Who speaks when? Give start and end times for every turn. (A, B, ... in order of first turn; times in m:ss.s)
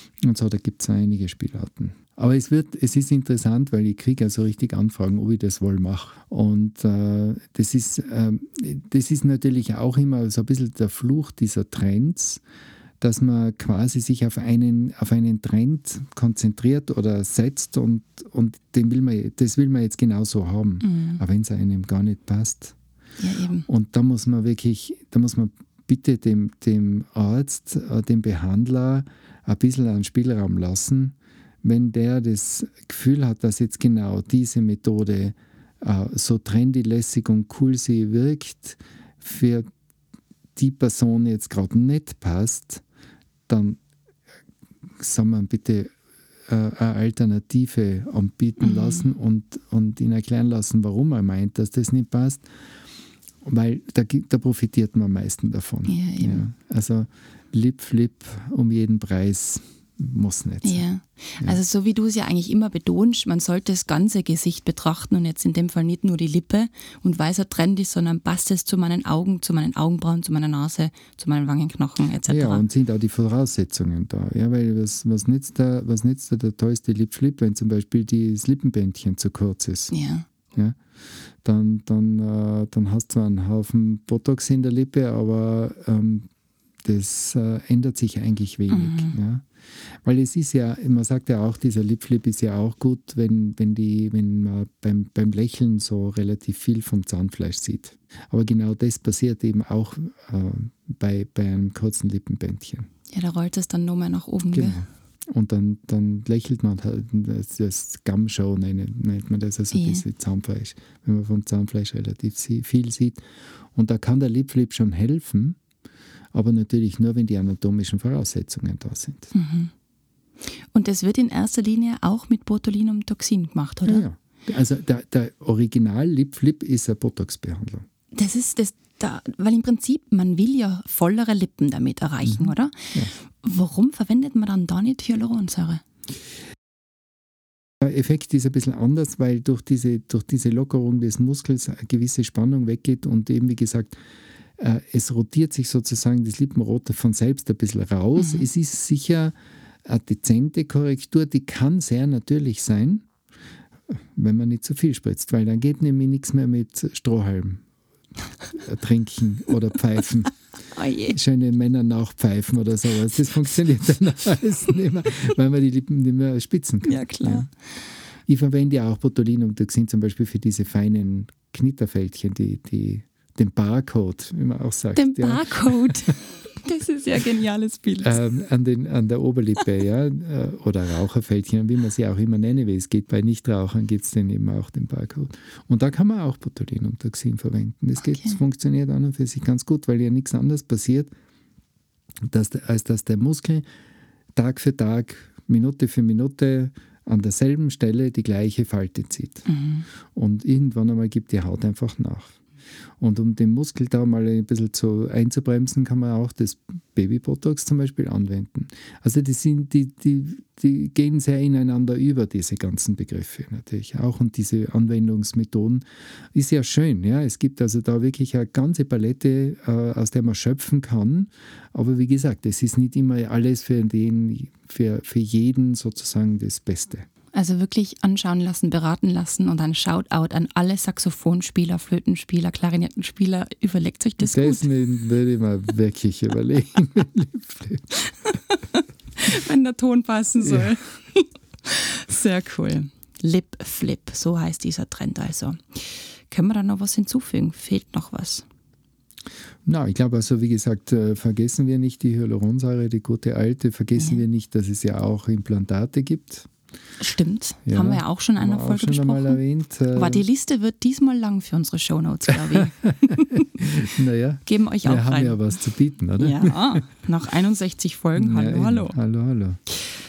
0:00.2-0:12.4 A
0:13.0-0:22.8 A
0:20.8-0:21.2 B
0:23.2-0:23.7 B
0:23.7-0:39.7 A
0:40.6-0:42.8 A
0:43.5-0:43.8 A
0:45.0-0:45.9 A
0:46.5-0:52.5 A
0:48.6-0:49.0 B
0:53.4-1:00.8 A
0:55.9-0:56.5 B
1:00.6-1:12.6 B
1:12.3-1:19.9 A
1:19.9-1:20.3 B
1:20.5-1:20.8 A
1:21.4-1:26.3 A
1:26.8-1:42.9 A
1:28.7-1:29.2 B
1:43.1-1:44.8 B
1:44.5-1:53.2 A
1:49.7-1:50.0 B
1:53.7-1:55.6 A
1:56.3-1:59.3 A
1:59.3-1:59.7 B
2:00.6-2:04.0 B
2:03.8-2:07.8 A
2:08.1-2:15.8 B
2:12.2-2:13.1 A
2:17.8-2:24.0 A
2:24.6-2:29.3 A
2:28.2-2:28.4 B
2:29.9-2:33.1 A
2:33.9-2:37.6 A
2:38.5-2:40.4 A
2:40.7-2:41.2 B
2:41.1-2:47.5 A
2:46.9-2:47.5 B
2:48.3-2:56.1 A
2:55.0-2:58.2 B
2:58.0-3:11.1 A
3:08.0-3:08.4 B
3:12.3-3:13.6 A
3:14.4-3:19.5 A
3:19.5-3:19.9 B
3:20.1-3:22.4 A
3:23.0-3:47.1 A
3:47.3-3:54.7 B
3:54.2-3:58.0 A
3:58.3-4:08.5 B
4:00.4-4:00.7 A
4:09.6-4:16.5 A
4:17.0-4:19.4 B
4:17.7-4:20.2 A
4:19.9-4:23.4 B
4:22.3-4:26.8 A
4:24.5-4:25.4 B
4:26.2-4:29.0 B
4:28.2-4:29.6 A